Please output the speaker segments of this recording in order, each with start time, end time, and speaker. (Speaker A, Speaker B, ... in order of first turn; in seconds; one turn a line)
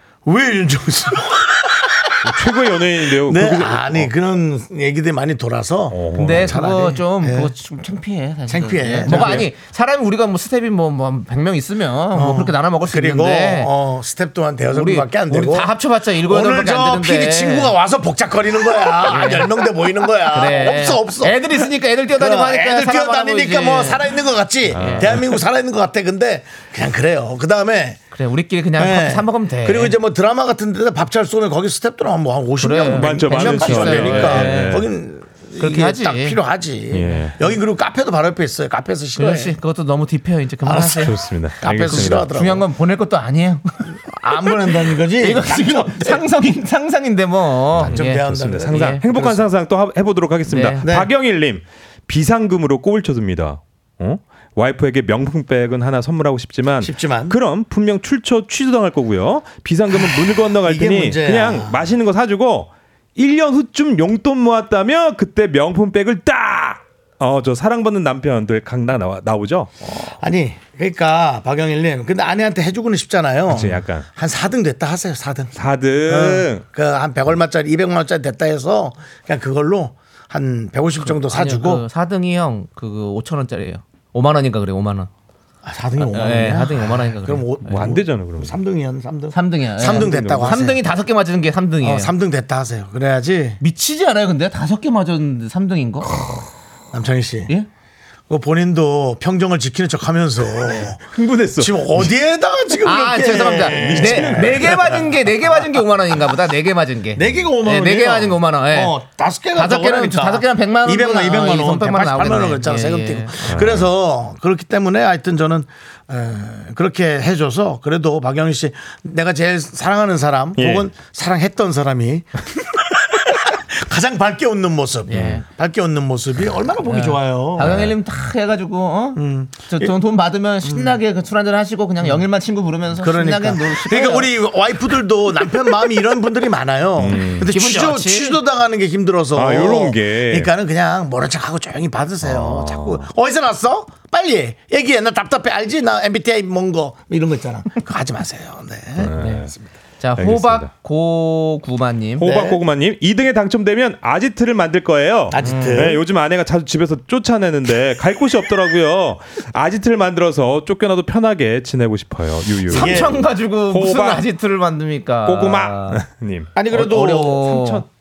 Speaker A: 0.2-2.4
Speaker B: 2.2-4.1
Speaker A: 3.0-7.5
Speaker B: 5.9-6.6
Speaker C: 6.2-13.7
Speaker A: 8.5-9.5
Speaker B: 9.1-9.5
Speaker A: 12.1-21.5
Speaker C: 14.7-17.8
Speaker C: 19.1-19.5
Speaker C: 20.3-24.1
Speaker A: 22.1-28.0
Speaker C: 24.7-25.1
Speaker B: 24.7-25.4
Speaker C: 28.1-29.9
Speaker A: 28.8-39.5
Speaker C: 32.6-34.9
Speaker B: 32.9-34.9
Speaker C: 35.6-36.4
Speaker B: 36.9-37.4
Speaker C: 39.2-49.0
Speaker A: 40.6-42.6
Speaker B: 40.9-42.3
Speaker A: 44.0-46.2
Speaker B: 47.8-70.0
Speaker A: 47.8-49.5
Speaker C: 50.5-50.8
Speaker A: 50.8-51.1
Speaker A: 56.8-57.4
Speaker A: 60.6-61.8
Speaker A: 70.0-75.6
Speaker B: 73.5-74.1
Speaker B: 75.5-76.6
Speaker A: 76.1-81.8
Speaker C: 81.0-85.1
Speaker A: 85.6-90.8
Speaker C: 86.0-87.8
Speaker B: 87.6-88.6
Speaker C: 89.3-92.1
Speaker B: 89.9-90.6
Speaker A: 91.8-93.6
Speaker C: 93.6-96.2
Speaker A: 96.9-97.5
Speaker A: 98.3-101.0
Speaker B: 101.1-102.1
Speaker A: 101.6-105.2
Speaker C: 102.8-109.0
Speaker B: 103.7-104.7
Speaker A: 107.1-127.9
Speaker C: 109.5-113.7
Speaker B: 113.5-113.9
Speaker B: 120.6-120.9
Speaker C: 125.1-125.5
Speaker C: 126.9-134.3
Speaker B: 127.6-127.9
Speaker A: 129.2-129.9
Speaker A: 130.6-131.0
Speaker A: 133.0-149.6
Speaker B: 137.0-137.5
Speaker C: 137.2-138.4
Speaker B: 139.3-140.5
Speaker B: 142.2-143.1
Speaker B: 149.0-149.5
Speaker C: 149.2-152.3
Speaker B: 150.2-150.7
Speaker B: 152.2-164.3
Speaker A: 152.2-152.6
Speaker A: 155.3-156.0
Speaker C: 155.4-156.0
Speaker C: 162.7-166.0
Speaker A: 162.7-163.2
Speaker B: 165.3-167.8
Speaker A: 166.6-167.4
Speaker C: 166.7-167.9